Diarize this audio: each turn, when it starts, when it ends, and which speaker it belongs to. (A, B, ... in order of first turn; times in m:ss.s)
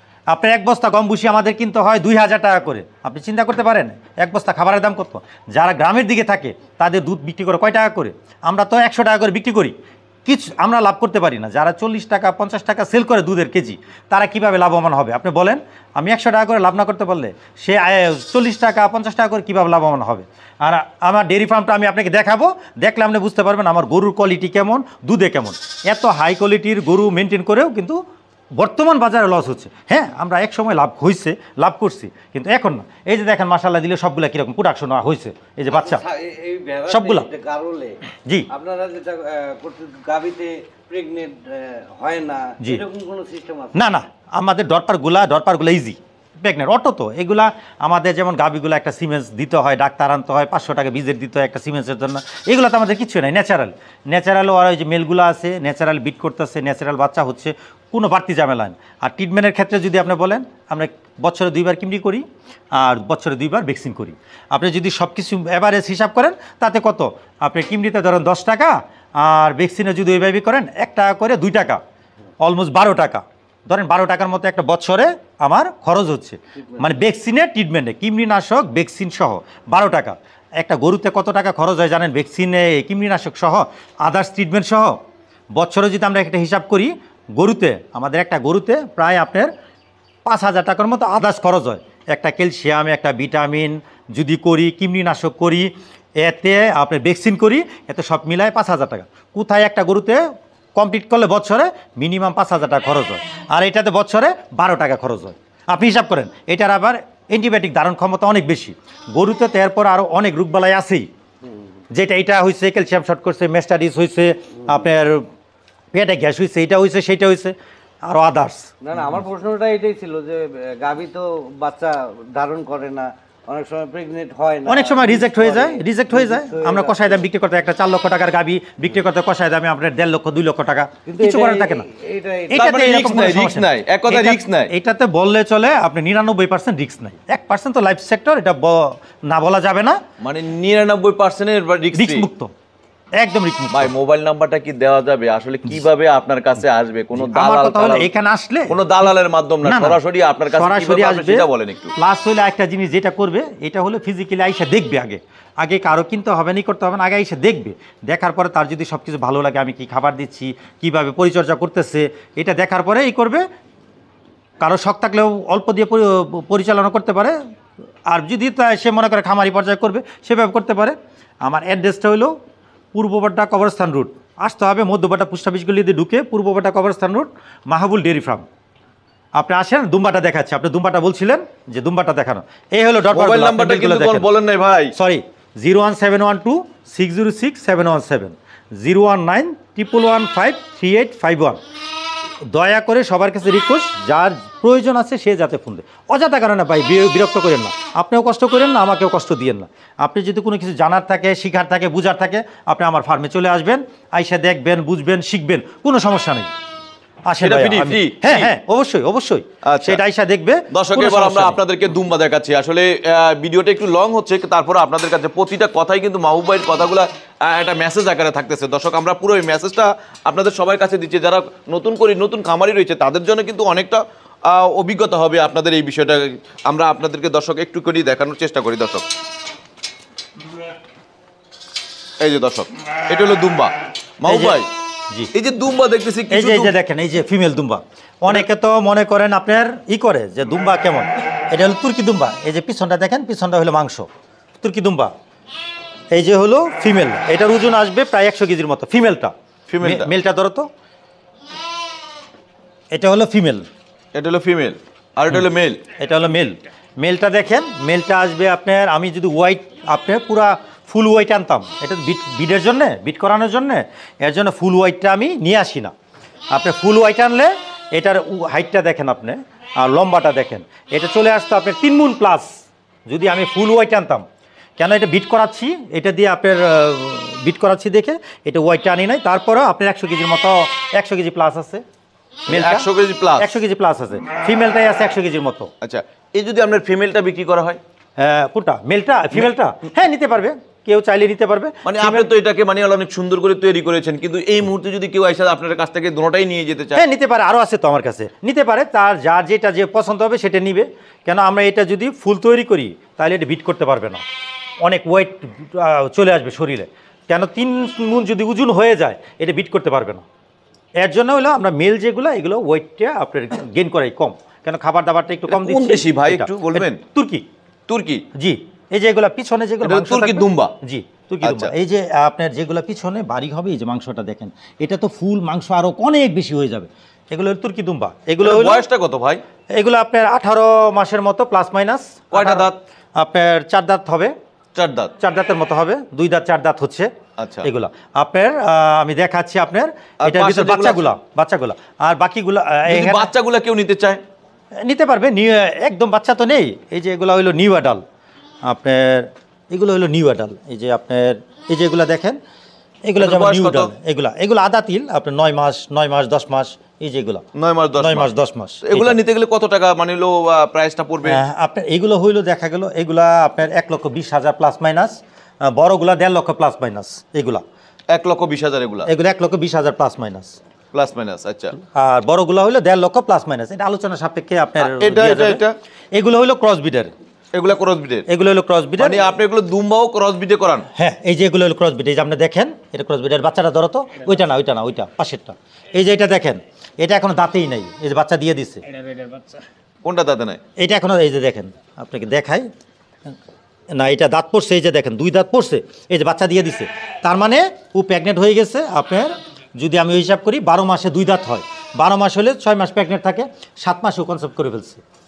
0:00.3-0:28.0 A
0:28.6-0:36.0 A
0:35.7-0:38.0 B
0:36.9-0:37.3 A
0:38.5-0:43.8 B
0:43.7-1:11.8 A
1:12.4-1:25.0 A
1:25.6-1:29.5 A
1:30.2-1:40.2 A
1:40.8-1:51.1 A
1:51.9-1:55.3 A
1:55.9-1:58.7 A
1:58.8-2:07.2 B
2:04.7-2:11.9 A
2:11.1-2:12.6 B
2:12.5-2:20.0 A
2:12.5-2:14.7 C
2:20.2-2:22.3 C
2:22.0-2:22.5 A
2:23.2-2:23.9 A
2:23.7-2:28.1 C
2:27.2-2:28.8 A
2:28.7-2:31.9 C
2:29.6-2:30.0 A
2:30.5-2:43.4 A
2:44.6-2:47.4 A
2:48.1-2:52.3 A
2:52.9-2:58.5 A
2:59.4-3:04.3 A
3:03.1-3:04.9 C
3:05.0-3:11.6 A
3:12.5-3:26.5 A
3:27.3-3:31.6 A
3:27.4-3:28.5 C
3:29.6-3:30.0 C
3:30.7-3:49.1 C
3:52.2-3:54.7 C
3:54.3-3:54.6 A
3:55.3-3:56.7 C
3:56.3-4:04.1 A
4:04.6-4:05.1 A
4:06.1-4:10.7 A
4:09.7-4:10.1 C
4:12.9-4:13.7 A
4:14.2-4:15.8 C
4:16.0-4:25.9 A
4:26.5-4:32.5 A
4:33.1-4:34.2 A
4:34.8-4:41.8 A
4:42.5-4:43.5 C
4:42.5-4:45.7 A
4:45.8-4:47.8 C
4:48.2-4:52.3 A
4:51.8-4:57.0 C
4:57.0-5:04.2 A
5:04.8-5:10.2 A
5:11.0-5:17.4 A
5:15.5-5:17.0 C
5:17.9-5:18.2 C
5:18.4-5:28.8 A
5:19.8-5:20.7 C
5:21.4-5:21.7 C
5:28.4-5:29.4 C
5:29.7-5:34.4 A
5:32.3-5:32.8 C
5:34.8-5:35.1 C
5:35.2-5:37.1 A
5:37.4-5:37.7 C
5:37.6-5:43.3 A
5:40.2-5:41.1 C
5:42.9-5:44.2 C
5:44.8-5:48.0 A
5:48.6-5:52.4 A
5:53.0-5:57.4 A
5:53.2-5:53.9 C
5:57.6-5:58.3 C
5:58.0-5:59.2 A
5:58.8-6:01.4 C
6:01.2-6:07.6 A
6:08.1-6:09.1 C
6:09.0-6:10.6 A
6:10.9-6:11.8 C
6:11.8-6:17.1 A
6:14.8-6:15.8 C
6:17.5-6:18.3 C
6:18.3-6:19.2 A
6:19.0-6:20.9 C
6:21.0-6:28.8 A
6:30.0-6:30.6 C
6:30.8-6:32.7 A
6:33.9-6:45.0 A